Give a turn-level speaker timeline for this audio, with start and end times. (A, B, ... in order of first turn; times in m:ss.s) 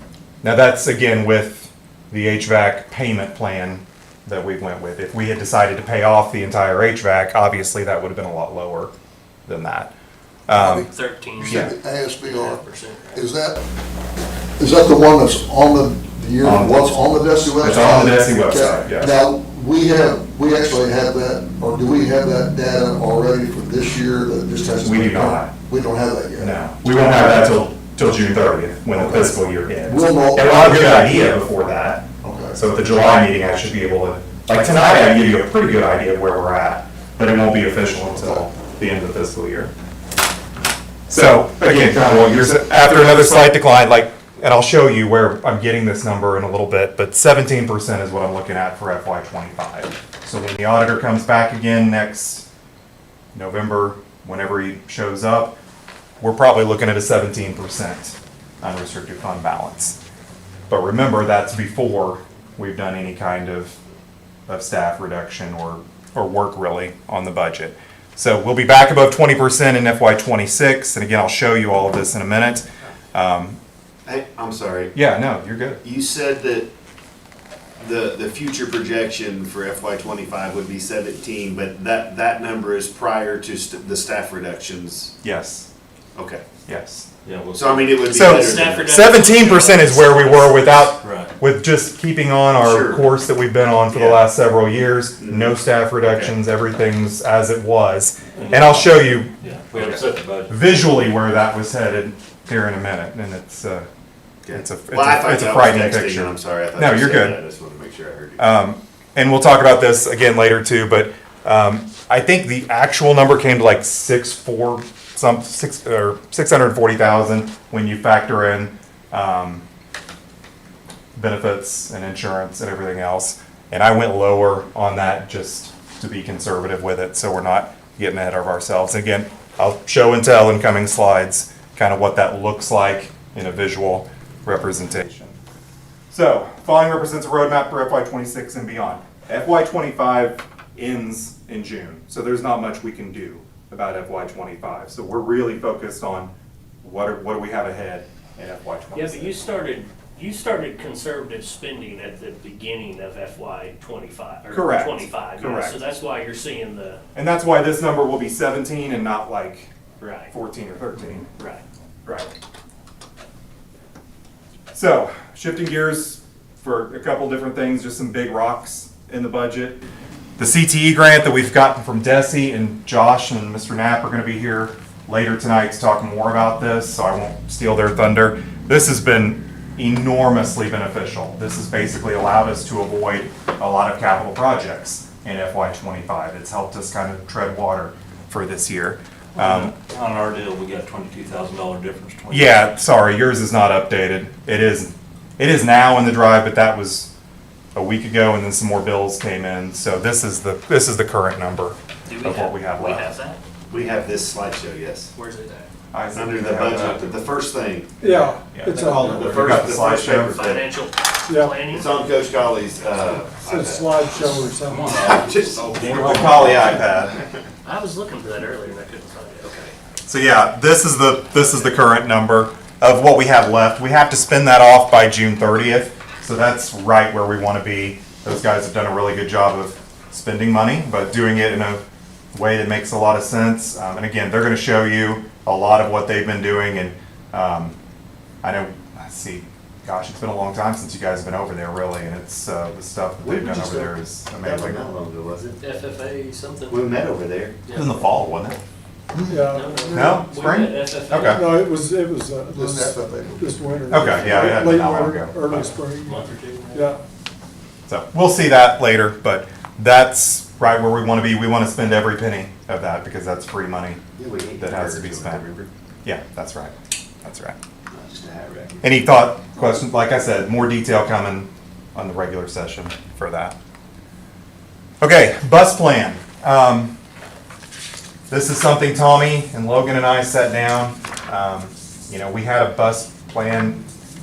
0:00.4-0:08.9 A
0:09.5-0:09.9 A
0:10.5-0:10.9 A
0:10.6-0:12.6 B
0:10.9-0:13.3 C
0:11.5-0:11.7 A
0:13.1-0:13.6 B
0:14.6-0:26.6 B
0:16.4-0:19.1 A
0:24.8-0:25.5 A
0:26.4-0:39.7 A
0:29.8-0:31.0 B
0:32.2-0:32.6 B
0:41.1-0:52.4 A
0:53.3-0:55.6 A
0:56.2-1:00.0 A
1:00.7-1:03.8 A
1:04.5-1:13.6 A
1:14.0-1:15.0 D
1:14.9-1:15.8 A
1:15.8-1:16.7 D
1:17.8-1:25.1 D
1:25.2-1:25.7 A
1:26.1-1:26.6 D
1:26.7-1:27.0 A
1:27.2-1:28.1 E
1:27.5-1:29.0 D
1:28.1-1:39.3 A
1:28.3-1:30.8 C
1:30.8-1:31.4 E
1:32.6-1:33.1 D
1:33.9-1:34.3 D
1:35.2-1:36.3 D
1:38.3-1:40.6 E
1:40.5-1:43.9 A
1:44.4-1:48.4 D
1:44.5-1:47.4 A
1:48.4-1:59.6 A
2:01.2-2:15.4 A
2:16.1-2:26.3 A
2:26.8-2:29.5 A
2:28.9-2:37.0 C
2:34.5-2:35.8 A
2:37.2-2:39.7 A
2:40.0-2:40.3 C
2:40.3-2:41.3 A
2:41.4-2:41.6 C
2:42.0-2:42.3 A
2:44.7-2:49.8 A
2:50.4-3:09.7 A
3:09.4-3:12.8 E
3:12.3-3:17.1 A
3:17.8-3:23.1 A
3:22.1-3:23.4 C
3:23.7-3:25.1 D
3:25.1-3:25.7 C
3:25.9-3:27.1 A
3:26.1-3:28.0 D
3:28.0-3:29.5 F
3:28.2-3:30.5 A
3:28.7-3:30.7 D
3:30.3-3:31.9 C
3:31.3-3:31.6 F
3:31.6-3:34.4 D
3:33.1-3:35.0 F
3:34.6-3:36.8 E
3:35.0-3:37.4 D
3:36.0-3:36.2 F
3:36.0-3:37.1 A
3:37.6-3:39.6 C
3:39.4-3:39.7 D
3:40.1-3:57.8 A
3:58.4-4:04.8 A
4:03.2-4:05.6 D
4:05.6-4:06.8 C
4:06.7-4:07.6 D
4:07.6-4:07.9 C
4:07.7-4:08.6 A
4:09.1-4:10.2 B
4:09.3-4:09.8 F
4:09.5-4:11.5 C
4:09.9-4:11.5 A
4:11.2-4:17.0 F
4:12.5-4:13.6 B
4:13.9-4:15.7 A
4:14.1-4:14.9 D
4:15.5-4:16.9 C
4:17.9-4:24.0 A
4:24.2-4:25.7 D
4:24.6-4:25.4 A
4:26.0-4:27.6 A
4:27.9-4:28.9 D
4:28.8-4:33.6 A
4:35.0-4:37.0 A
4:38.3-4:43.8 A